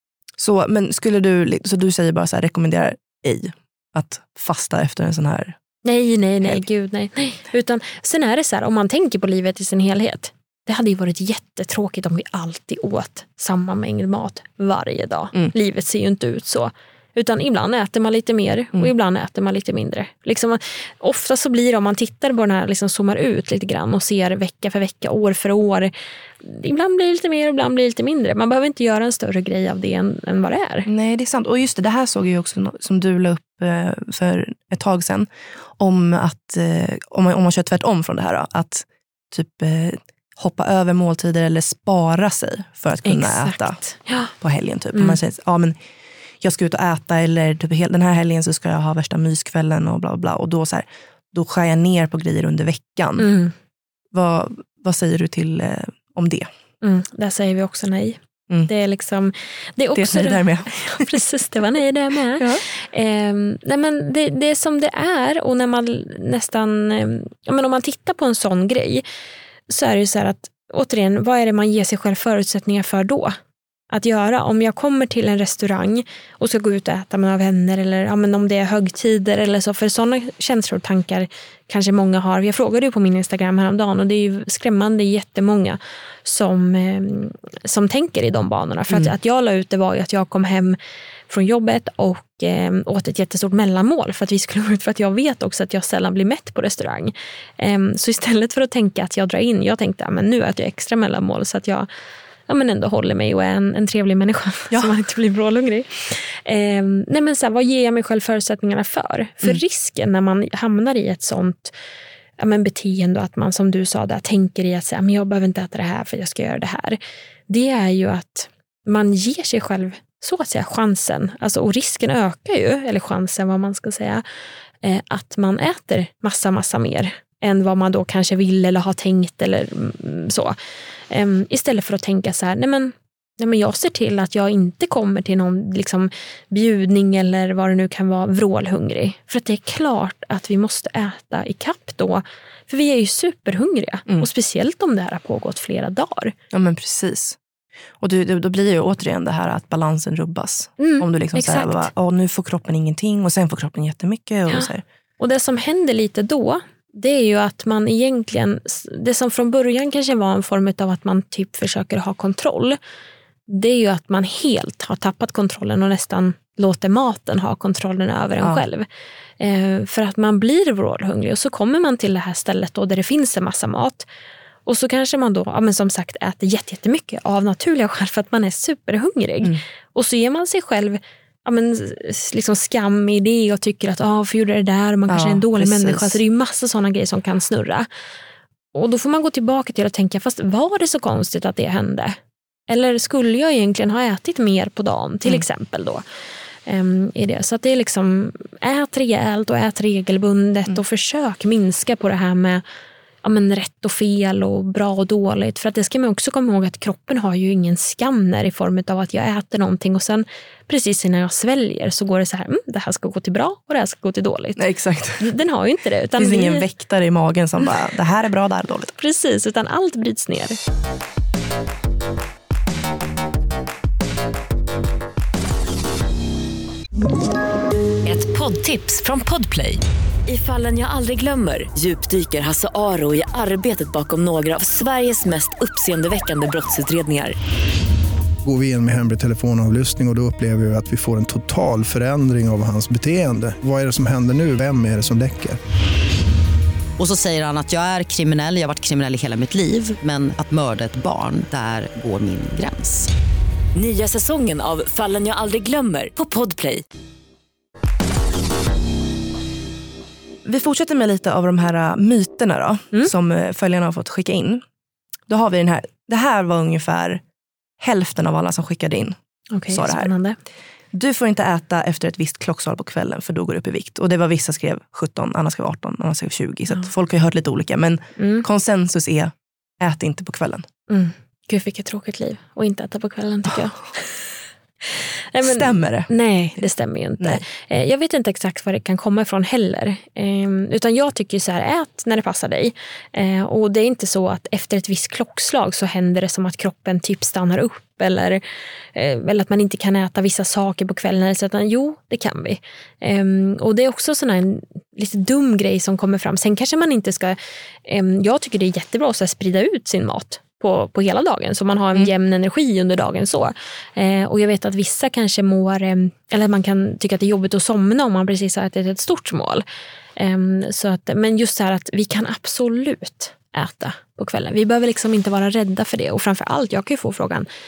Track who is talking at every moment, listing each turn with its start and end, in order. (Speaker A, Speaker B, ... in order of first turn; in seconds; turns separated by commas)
Speaker A: 0.4-5.6, Speaker B: 5.8-30.9, Speaker A: 30.9-43.8, Speaker B: 43.0-44.3, Speaker A: 44.4-45.8, Speaker A: 46.4-53.3, Speaker B: 53.2-53.5, Speaker A: 54.1-56.5, Speaker B: 56.8-69.0, Speaker A: 59.9-61.1, Speaker A: 62.4-62.6, Speaker B: 69.7-73.4, Speaker B: 73.9-90.8, Speaker B: 91.3-101.9, Speaker B: 102.5-111.7, Speaker B: 112.4-124.2, Speaker B: 124.8-130.6, Speaker B: 131.1-146.3, Speaker A: 146.5-147.4, Speaker A: 148.0-154.8, Speaker B: 150.8-151.9, Speaker B: 154.5-162.8, Speaker B: 163.5-168.9, Speaker B: 169.4-174.1, Speaker B: 174.7-187.9, Speaker A: 185.1-186.2, Speaker B: 188.7-192.2, Speaker B: 192.7-196.0, Speaker B: 196.7-202.6, Speaker B: 203.2-216.7, Speaker A: 214.6-215.2, Speaker A: 216.2-218.9, Speaker B: 219.0-220.6, Speaker C: 228.1-237.3, Speaker D: 238.4-245.6, Speaker E: 247.0-253.1, Speaker C: 253.7-256.8, Speaker A: 260.4-264.6, Speaker A: 265.3-267.2, Speaker A: 267.8-269.2, Speaker B: 269.5-270.4, Speaker A: 269.7-270.1, Speaker A: 270.9-280.6, Speaker B: 278.2-278.4, Speaker B: 280.9-284.2, Speaker B: 284.8-298.4, Speaker A: 285.4-286.1, Speaker B: 298.9-319.6, Speaker B: 320.1-327.5